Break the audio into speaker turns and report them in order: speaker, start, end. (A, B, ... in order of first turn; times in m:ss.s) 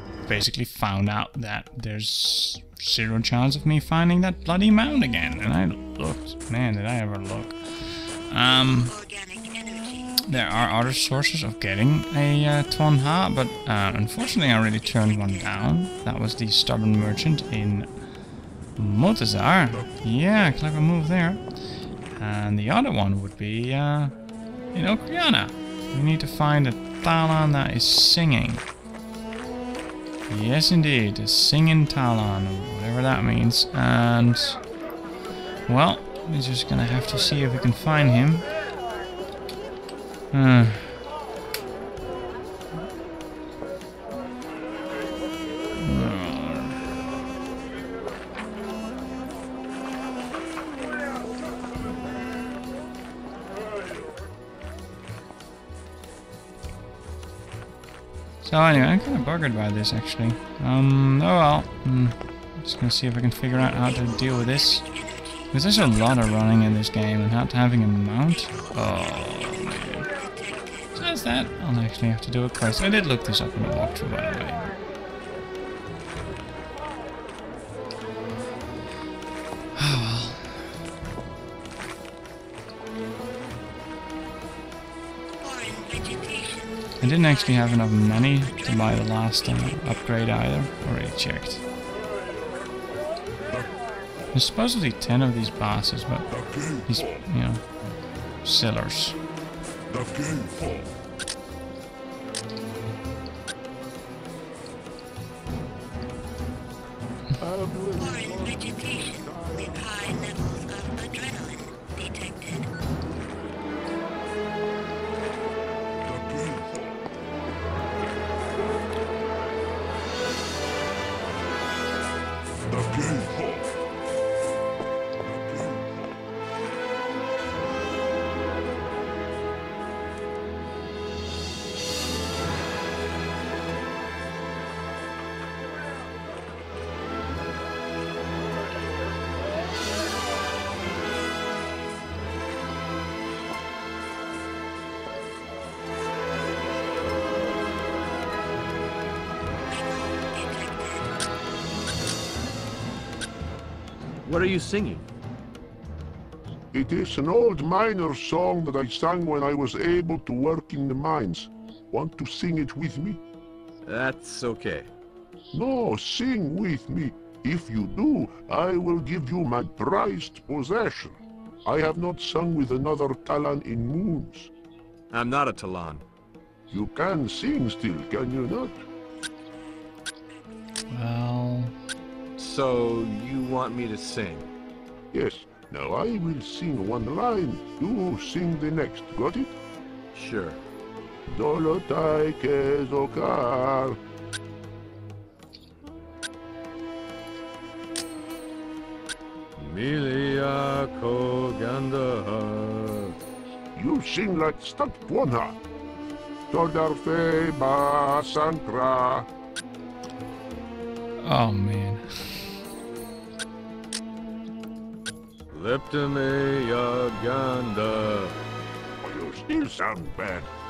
0:00.2-0:09.0 A
0:10.2-0:17.9 A
0:18.8-0:21.4 A
0:22.1-0:24.1 A
0:24.7-0:28.6 A
0:30.3-0:34.6 A
0:35.7-0:38.4 A
0:40.3-0:41.0 A
0:45.8-0:46.8 A
0:58.4-1:04.9 A
1:05.4-1:10.1 A
1:10.9-1:14.7 A
1:19.8-1:20.7 A
1:27.0-1:31.6 A
1:34.3-1:37.6 A
1:38.4-1:39.2 A
1:39.9-1:40.9 B
1:47.4-1:51.3 C
1:56.0-1:57.0 B
2:02.7-2:03.7 B
2:05.3-2:06.1 B
2:34.2-2:35.0 D
2:36.7-2:43.2 C
2:43.8-2:44.9 D
2:45.5-2:54.5 C
2:55.1-2:56.0 D
2:56.7-2:58.8 C
3:00.9-3:01.7 A
3:02.4-3:04.5 D
3:05.1-3:09.5 C
3:10.1-3:10.6 D
3:11.3-3:14.0 C
3:19.6-3:23.1 D
3:23.8-3:25.6 C
3:26.5-3:29.3 C
3:31.2-3:32.4 A
3:35.5-3:38.3 D
3:39.0-3:40.5 C